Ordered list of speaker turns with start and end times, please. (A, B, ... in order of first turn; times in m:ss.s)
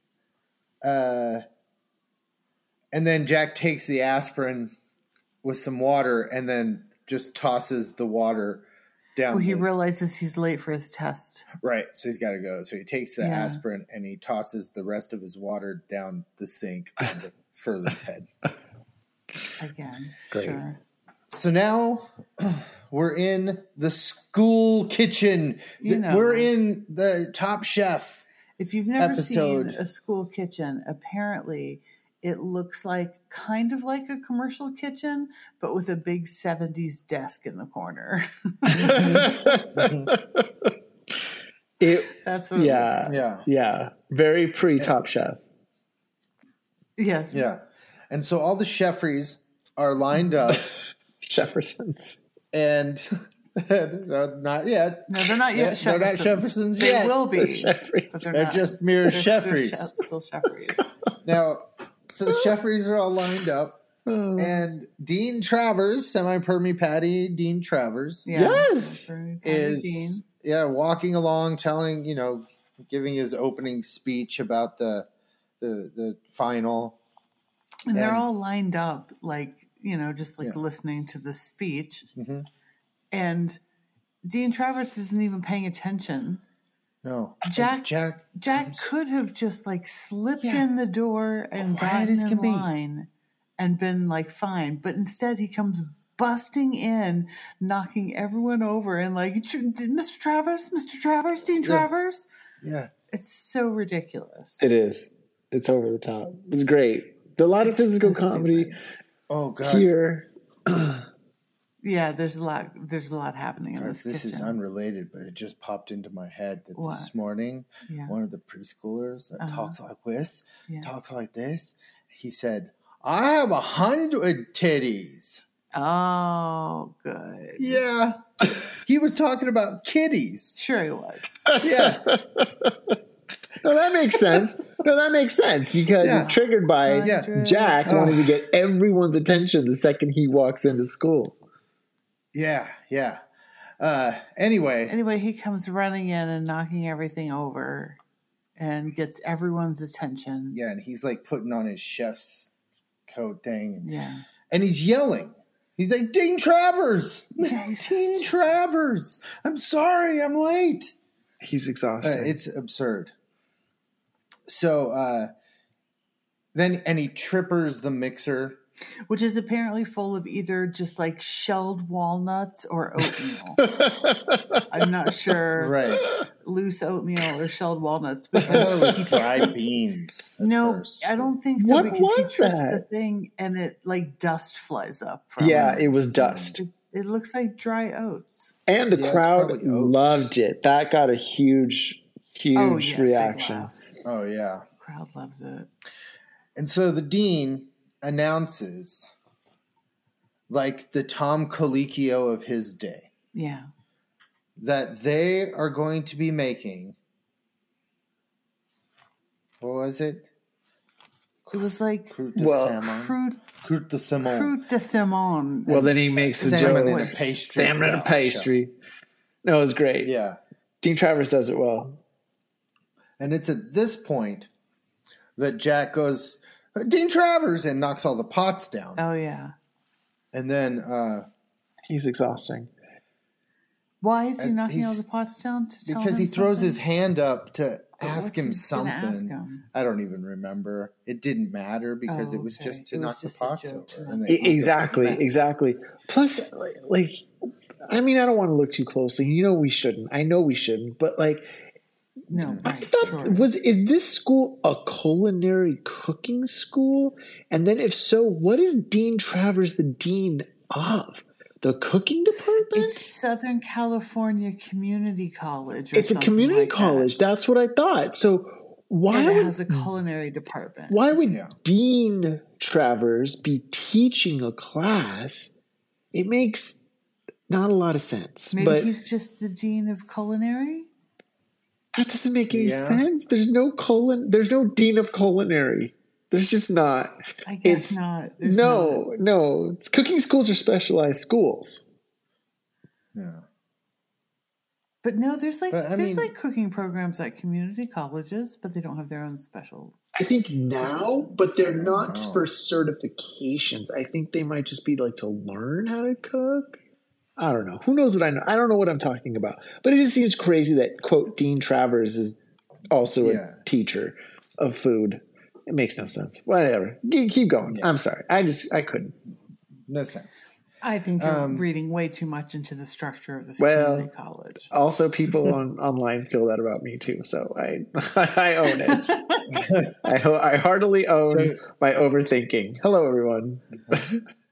0:00.8-0:01.4 A
0:02.9-0:04.7 A
0:05.4-0:09.7 A
0:09.3-0:11.5 B
0:11.6-0:18.3 A
0:13.2-0:13.6 B
0:19.6-0:20.8 B
0:20.3-0:20.6 C
0:21.3-0:28.2 A
0:25.8-0:26.5 B
0:28.6-0:39.3 B
0:29.0-0:29.8 A
0:38.8-0:40.1 A
0:38.8-0:40.7 C
0:41.8-0:45.4 C
0:42.2-0:43.1 B
0:43.1-0:43.5 A
0:47.0-0:47.4 B
0:47.3-0:50.7 A
0:51.2-0:52.2 C
0:52.5-0:57.2 A
0:55.1-1:00.9 B
0:57.3-0:58.3 C
0:58.3-0:59.9 A
1:01.2-1:03.8 A
1:04.1-1:04.6 C
1:04.4-1:08.3 A
1:08.3-1:10.2 B
1:08.3-1:09.1 C
1:09.4-1:15.1 A
1:15.6-1:17.0 A
1:17.9-1:22.1 B
1:17.9-1:18.3 A
1:22.2-1:22.5 A
1:23.1-1:23.6 B
1:24.2-1:26.4 B
1:27.0-1:28.9 A
1:27.4-1:42.3 B
1:31.6-1:32.7 A
1:41.6-1:41.9 A
1:42.6-1:42.9 A
1:43.1-1:44.6 B
1:44.6-1:48.8 C
1:47.6-1:48.8 B
1:49.3-1:49.9 A
1:49.6-1:51.0 C
1:51.8-1:54.6 B
1:53.8-2:05.4 A
1:56.8-1:57.1 B
1:57.9-1:58.2 B
1:59.4-1:59.8 B
2:05.7-2:07.8 B
2:07.6-2:10.6 A
2:10.6-2:11.4 B
2:11.5-2:13.0 C
2:11.6-2:12.1 A
2:13.6-2:21.4 C
2:16.0-2:16.3 A
2:16.0-2:18.0 B
2:17.0-2:17.3 A
2:17.8-2:18.4 A
2:22.3-2:23.2 A
2:23.8-2:25.0 A
2:24.9-2:28.0 B
2:28.6-2:30.6 B
2:30.5-2:32.5 A
2:33.1-2:33.9 A
2:33.8-2:34.2 B
2:34.5-2:40.9 A
2:37.4-2:38.3 B
2:41.4-2:42.4 C
2:42.0-2:43.1 A
2:44.5-2:45.3 A
2:46.5-2:48.6 A
2:49.1-2:53.6 B
2:53.6-2:54.6 C
2:54.7-2:55.8 B
2:55.6-2:56.1 A
2:56.4-2:59.6 B
2:58.5-2:59.2 C
2:58.5-3:02.0 A
3:00.4-3:05.9 B
3:01.6-3:02.8 C
3:05.4-3:06.6 C
3:05.4-3:06.6 A
3:06.5-3:08.6 B
3:08.7-3:13.7 C
3:08.9-3:10.3 A
3:12.6-3:13.8 B
3:14.0-3:14.6 A
3:14.8-3:15.7 B
3:16.6-3:19.1 A
3:20.5-3:23.1 A
3:23.3-3:23.7 B
3:24.6-3:27.0 A
3:29.6-3:30.3 A
3:31.5-3:34.6 A
3:31.5-3:32.2 B
3:32.4-3:32.8 C
3:32.8-3:33.4 B
3:34.2-3:37.3 B
3:35.7-3:38.7 C
3:36.4-3:38.5 A
3:39.4-3:40.1 C
3:40.0-3:40.4 A
3:40.8-3:42.0 C
3:43.2-3:44.5 A
3:45.4-3:49.0 A
3:49.0-3:49.5 B
3:50.3-3:51.3 A
3:51.9-3:52.7 C
3:54.0-3:56.8 B
3:54.4-3:55.0 A
3:55.9-4:05.3 A
3:58.0-3:59.6 B
4:02.1-4:05.4 B
4:04.3-4:07.3 C
4:07.8-4:11.5 C
4:12.3-4:13.5 B
4:12.3-4:13.2 A
4:12.6-4:23.1 C
4:22.7-4:27.1 B
4:26.0-4:29.9 C
4:29.1-4:31.2 B
4:30.9-4:35.5 C
4:31.3-4:31.5 A
4:36.1-4:36.8 C
4:37.5-4:38.9 C
4:38.5-4:40.9 B
4:41.9-4:51.8 C
4:42.5-4:43.1 A
4:47.5-4:49.0 B
4:53.1-4:53.4 A
4:55.0-5:00.0 B
4:55.7-4:56.3 A
5:00.2-5:06.8 C
5:00.8-5:01.5 B
5:01.6-5:02.5 A
5:07.4-5:12.4 C
5:12.9-5:19.1 C
5:13.2-5:13.6 A
5:17.6-5:17.9 A
5:19.9-5:20.5 A
5:20.8-5:24.7 B
5:21.2-5:21.7 A
5:23.6-5:24.1 C
5:24.7-5:34.2 C
5:28.6-5:29.5 B
5:29.5-5:29.9 A
5:31.3-5:31.6 A